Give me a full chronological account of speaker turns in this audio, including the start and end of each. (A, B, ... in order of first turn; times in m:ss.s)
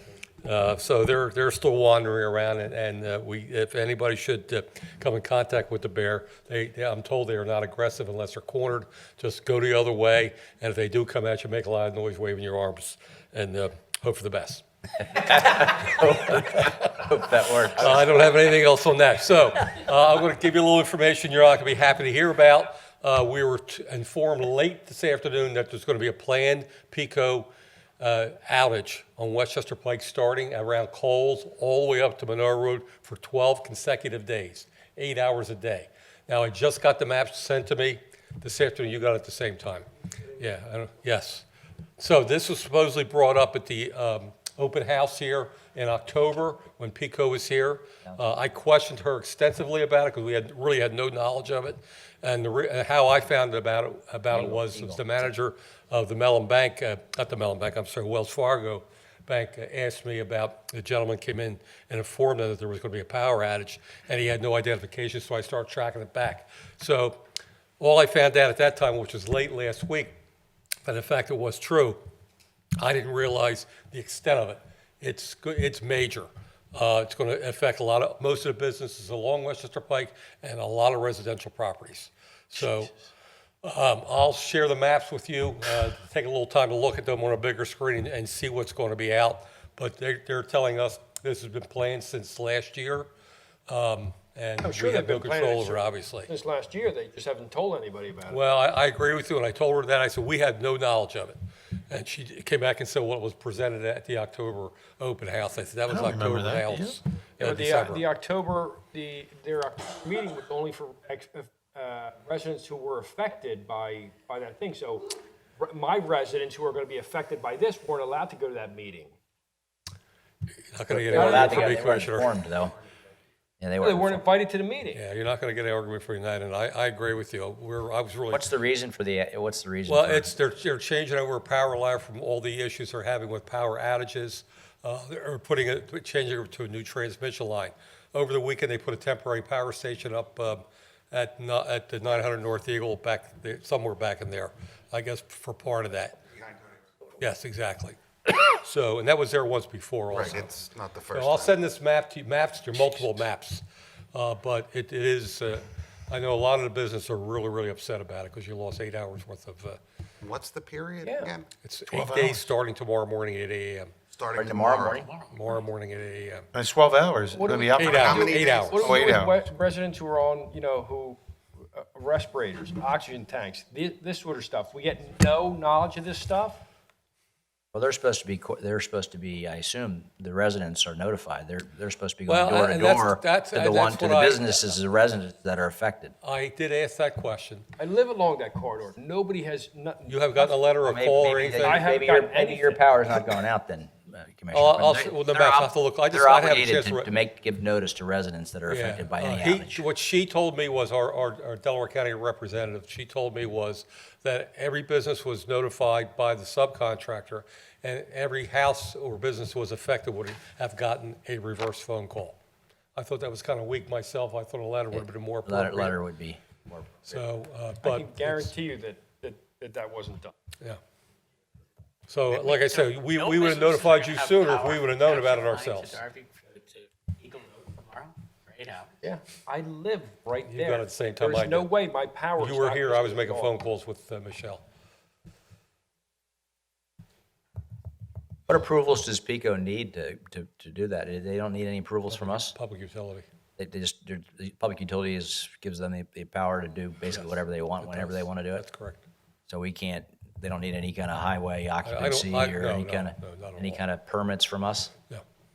0:00.4-0:17.1 A
0:15.1-0:18.2 B
0:17.7-0:41.4 A
0:42.0-1:07.2 A
0:54.3-0:55.1 B
1:07.8-1:10.1 A
1:10.8-1:12.0 A
1:12.8-1:22.9 A
1:23.6-1:33.1 A
1:33.7-1:36.3 A
1:34.6-1:38.4 C
1:38.3-1:41.4 A
1:41.9-1:48.0 A
1:45.9-1:47.0 D
1:47.4-1:59.1 C
2:00.7-2:02.3 A
2:00.9-2:02.7 B
2:01.1-2:01.8 C
2:03.6-2:04.2 B
2:03.8-2:05.0 C
2:04.9-2:08.4 A
2:08.3-2:10.3 B
2:09.9-2:26.2 A
2:27.2-2:28.0 A
2:28.5-2:30.5 A
2:30.1-2:31.6 E
2:31.1-2:39.8 A
2:40.2-2:41.5 E
2:41.0-2:41.3 C
2:41.6-2:43.9 A
2:41.9-2:42.3 D
2:44.1-2:45.1 E
2:44.3-2:45.1 B
2:44.9-2:45.3 F
2:45.3-2:46.5 A
2:46.5-2:48.0 D
2:47.3-2:56.6 C
2:47.7-2:48.9 A
2:47.8-2:48.9 E
2:48.8-2:49.4 D
2:57.7-3:06.1 B
3:02.3-3:04.7 A
3:06.2-3:07.7 A
3:07.8-3:10.6 C
3:10.1-3:11.9 A
3:10.8-3:19.8 B
3:11.5-3:12.8 C
3:14.5-3:17.1 A
3:18.7-3:32.4 A
3:32.9-3:36.0 A
3:34.9-3:37.2 B
3:37.1-3:38.5 A
3:37.8-3:40.4 C
3:42.1-3:46.0 A
3:42.3-3:48.9 F
3:49.0-3:53.5 C
3:50.4-3:51.7 A
3:52.4-3:54.6 A
3:58.5-4:02.5 B
4:02.1-4:03.2 A
4:03.6-4:08.6 B
4:07.1-4:09.1 A
4:09.5-4:14.9 B
4:11.8-4:13.8 A